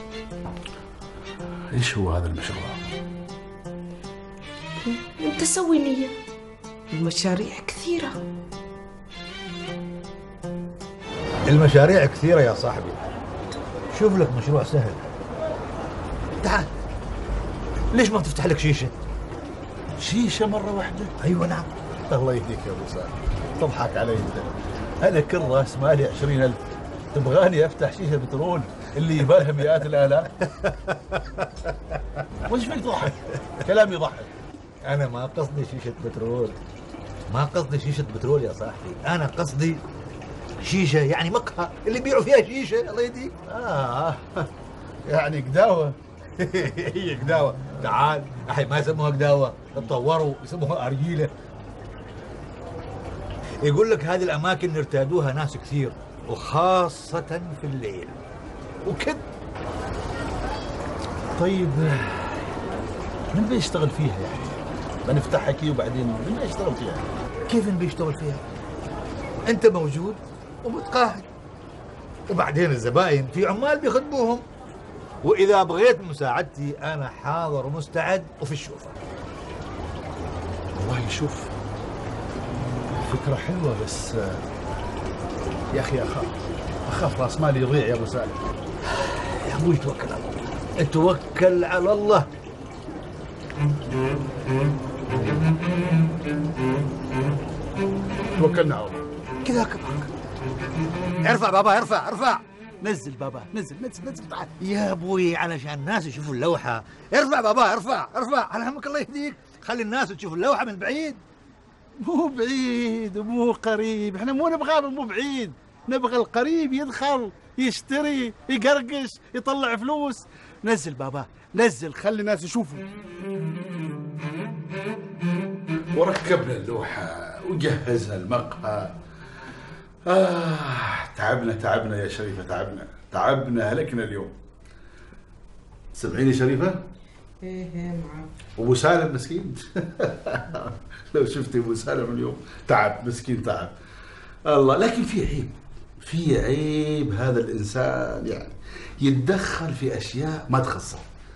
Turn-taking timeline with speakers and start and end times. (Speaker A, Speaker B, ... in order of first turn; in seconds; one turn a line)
Speaker A: 1.7-2.9
Speaker B: 4.8-6.2
Speaker B: 6.9-8.2
Speaker C: 11.5-13.0
Speaker C: 13.9-15.1
Speaker C: 17.9-18.9
Speaker A: 20.0-21.1
Speaker C: 21.2-21.7
Speaker A: 22.1-26.6
Speaker A: 27.1-30.3
Speaker C: 30.4-32.2
Speaker A: 32.5-34.3
Speaker C: 34.9-36.6
Speaker C: 37.3-39.8
Speaker C: 40.6-43.4
Speaker A: 43.5-44.5
Speaker A: 45.1-46.0
Speaker C: 46.4-51.3
Speaker C: 53.6-58.2
Speaker A: 58.9-59.2
Speaker A: 61.4-62.5
Speaker A: 63.3-67.1
Speaker C: 67.5-68.4
Speaker C: 69.5-71.3
Speaker C: 72.3-74.4
Speaker C: 75.2-79.0
Speaker A: 80.7-81.5
Speaker A: 82.9-84.4
Speaker A: 85.7-88.5
Speaker C: 89.0-92.3
Speaker A: 98.4-99.0
Speaker C: 99.4-100.1
Speaker C: 101.2-102.4
Speaker A: 102.8-104.5
Speaker C: 104.6-111.2
Speaker A: 112.0-122.8
Speaker A: 125.9-128.9
Speaker A: 130.1-134.4
Speaker A: 135.9-136.8
Speaker B: 137.4-138.3
Speaker A: 138.6-143.8
Speaker A: 144.5-151.1